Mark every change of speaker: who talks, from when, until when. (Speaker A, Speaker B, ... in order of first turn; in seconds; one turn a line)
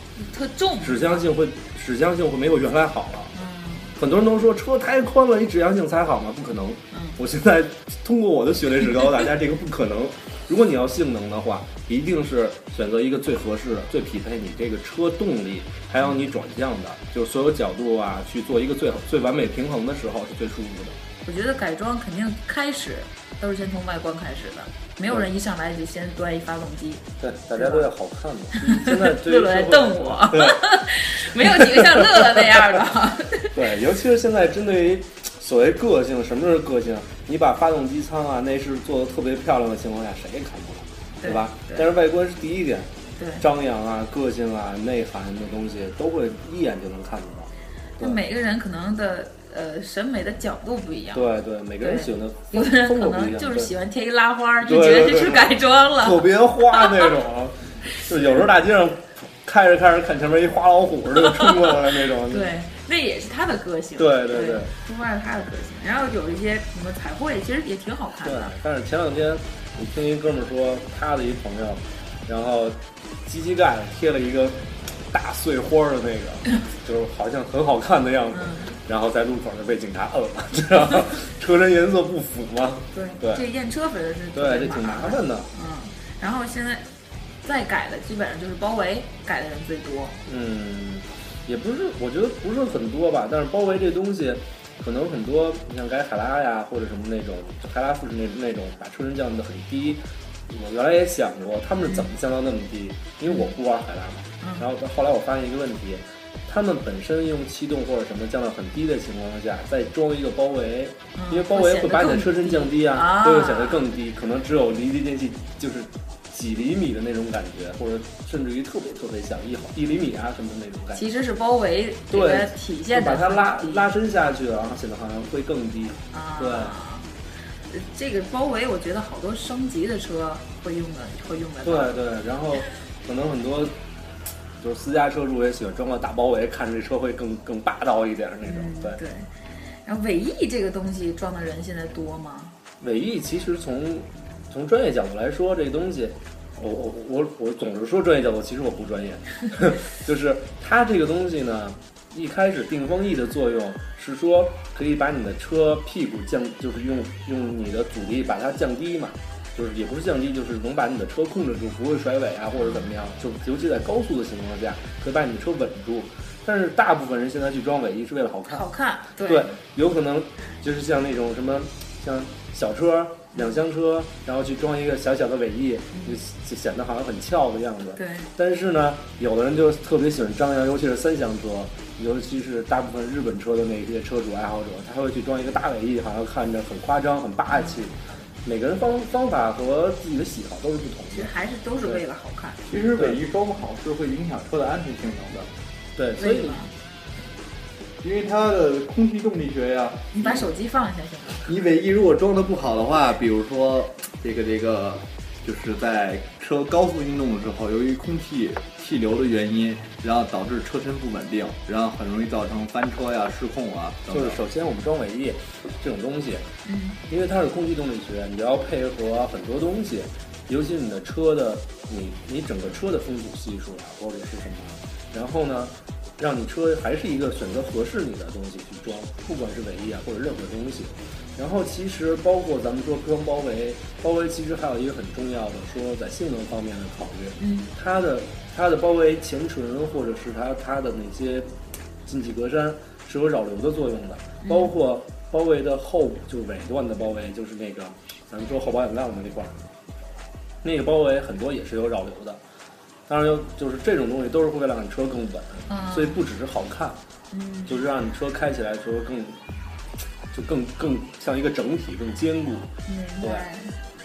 Speaker A: 0.1-1.2
Speaker B: 0.8-3.3
Speaker A: 3.3-4.0
Speaker B: 4.0-20.9
Speaker A: 6.9-7.2
Speaker A: 21.2-27.9
Speaker B: 27.2-30.7
Speaker A: 28.5-33.6
Speaker B: 31.4-32.8
Speaker B: 33.5-48.2
Speaker A: 41.2-41.9
Speaker A: 43.1-43.5
Speaker A: 48.0-51.2
Speaker B: 51.1-53.7
Speaker A: 51.8-57.0
Speaker B: 54.6-62.5
Speaker A: 61.1-61.7
Speaker A: 62.2-68.5
Speaker B: 64.0-64.7
Speaker B: 68.2-83.5
Speaker A: 78.3-78.7
Speaker A: 82.9-86.9
Speaker B: 84.3-85.5
Speaker A: 87.4-90.2
Speaker B: 90.2-121.0
Speaker A: 103.3-103.5
Speaker A: 104.4-104.7
Speaker A: 111.1-113.8
Speaker A: 120.9-123.9
Speaker B: 122.1-126.8
Speaker A: 126.1-127.1
Speaker A: 127.7-132.0
Speaker B: 131.6-133.8
Speaker B: 134.6-139.0
Speaker A: 138.4-139.3
Speaker A: 139.8-142.5
Speaker B: 142.8-168.6
Speaker A: 162.6-162.9
Speaker A: 168.5-169.6
Speaker B: 169.2-192.0
Speaker A: 173.3-173.6
Speaker A: 175.9-176.2
Speaker A: 177.9-178.3
Speaker A: 187.5-187.8
Speaker A: 191.1-192.6
Speaker C: 192.7-195.5
Speaker B: 192.9-193.2
Speaker B: 195.9-196.6
Speaker A: 196.2-196.7
Speaker C: 198.0-200.5
Speaker A: 200.1-201.5
Speaker C: 201.4-214.4
Speaker B: 214.1-216.4
Speaker A: 216.6-217.0
Speaker B: 217.1-241.5
Speaker A: 237.4-237.7
Speaker B: 242.0-249.6
Speaker A: 244.4-244.7
Speaker B: 250.6-252.4
Speaker B: 253.1-257.0
Speaker A: 255.7-256.2
Speaker A: 257.3-257.8
Speaker B: 257.7-259.4
Speaker B: 260.3-263.5
Speaker A: 262.9-263.8